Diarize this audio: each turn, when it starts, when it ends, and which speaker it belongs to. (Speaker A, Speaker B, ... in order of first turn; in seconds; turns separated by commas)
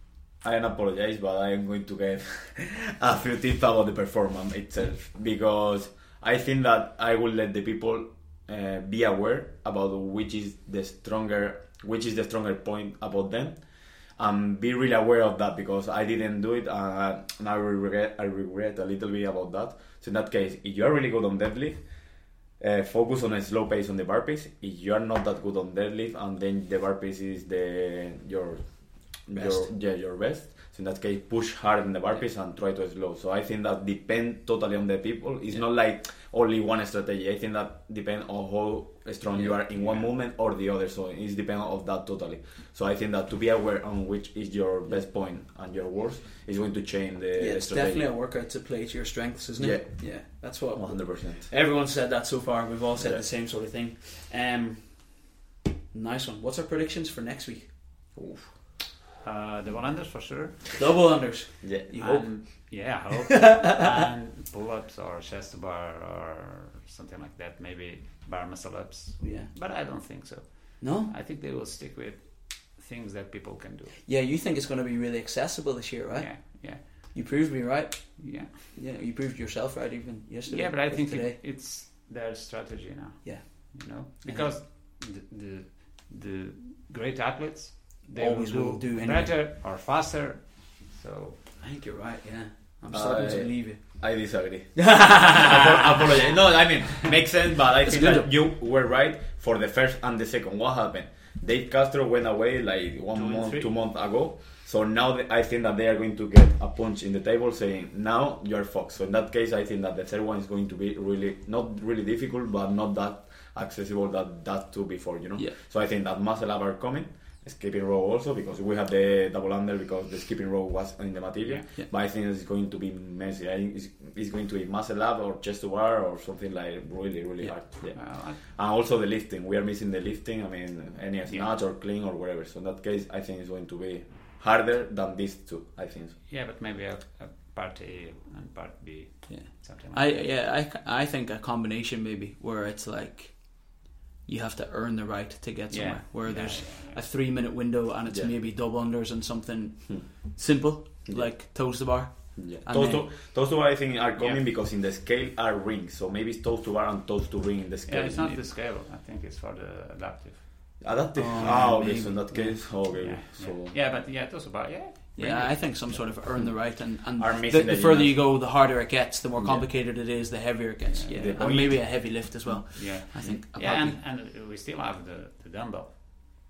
Speaker A: 0.4-48.1, Speaker B: 29.3-29.7, Speaker B: 39.3-40.1, Speaker B: 47.4-55.3, Speaker A: 49.6-51.5, Speaker A: 53.0-53.2, Speaker B: 55.9-57.8, Speaker A: 58.1-58.5, Speaker C: 59.2-60.7, Speaker B: 60.8-62.2, Speaker A: 61.6-61.9, Speaker C: 61.9-74.0, Speaker B: 69.2-69.5, Speaker B: 70.8-71.1, Speaker B: 74.0-81.4, Speaker C: 76.1-77.1, Speaker C: 78.2-78.8, Speaker C: 80.5-91.4, Speaker B: 83.2-83.5, Speaker B: 84.2-84.5, Speaker B: 88.2-89.3, Speaker B: 91.6-96.3, Speaker A: 92.9-136.1, Speaker B: 97.8-98.3, Speaker C: 103.1-103.7, Speaker C: 121.3-121.7, Speaker C: 127.7-128.4, Speaker C: 131.2-131.6, Speaker C: 136.2-140.3, Speaker B: 139.3-153.0, Speaker C: 145.7-147.0, Speaker A: 148.1-148.4, Speaker A: 149.8-150.3, Speaker A: 151.0-151.4, Speaker A: 152.3-158.4, Speaker C: 154.2-154.5, Speaker C: 157.8-160.4, Speaker A: 160.8-163.7, Speaker B: 161.1-162.6, Speaker C: 162.4-165.8, Speaker B: 165.2-174.0, Speaker A: 165.8-168.3, Speaker A: 169.3-169.7, Speaker C: 170.9-171.4, Speaker A: 171.1-172.6, Speaker C: 172.7-175.9